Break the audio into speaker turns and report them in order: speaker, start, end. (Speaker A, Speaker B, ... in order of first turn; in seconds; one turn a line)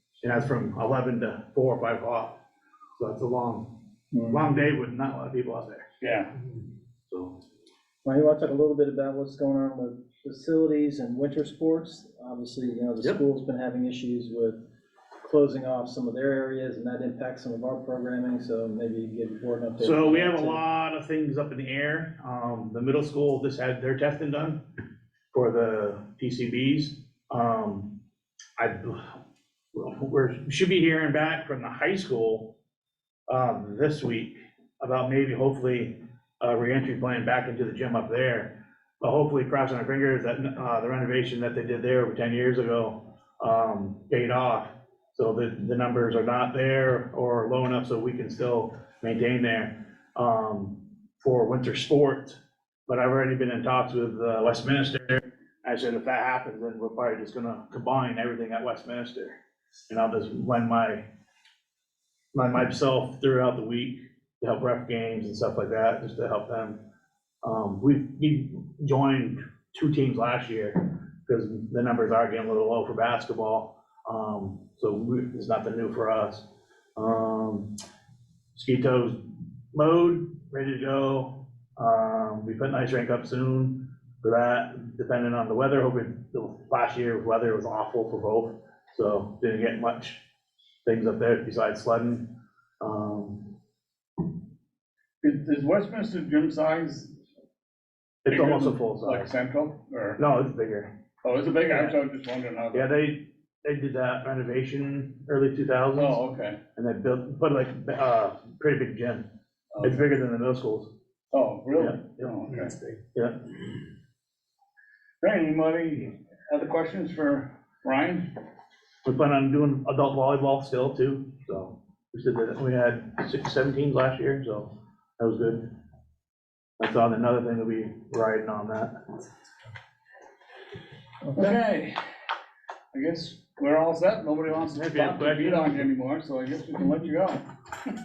Speaker A: 0.2-2.4
Speaker A: 3.0-3.7
Speaker B: 4.1-4.5
Speaker A: 4.2-5.9
Speaker C: 6.0-6.3
Speaker A: 7.1-7.4
Speaker B: 8.1-14.6
Speaker B: 15.2-20.6
Speaker A: 19.8-24.6
Speaker A: 25.3-27.9
Speaker A: 28.6-29.2
Speaker A: 29.7-32.5
Speaker A: 33.3-59.4
Speaker A: 59.9-61.1
Speaker A: 62.3-66.8
Speaker A: 67.4-76.5
Speaker A: 77.0-77.7
Speaker A: 78.5-79.2
Speaker A: 79.7-90.2
Speaker A: 90.9-92.3
Speaker A: 92.8-93.5
Speaker C: 95.2-97.1
Speaker A: 98.3-99.3
Speaker C: 98.3-100.2
Speaker A: 100.2-100.9
Speaker C: 101.2-102.9
Speaker A: 101.7-102.0
Speaker A: 102.7-106.2
Speaker C: 106.0-106.6
Speaker A: 106.8-109.3
Speaker C: 109.7-110.1
Speaker A: 109.8-110.9
Speaker C: 111.3-112.8
Speaker A: 111.8-113.4
Speaker C: 115.2-118.3
Speaker A: 119.0-125.7
Speaker A: 126.8-129.0
Speaker C: 131.3-131.9
Speaker C: 132.9-137.5
Speaker A: 134.8-135.8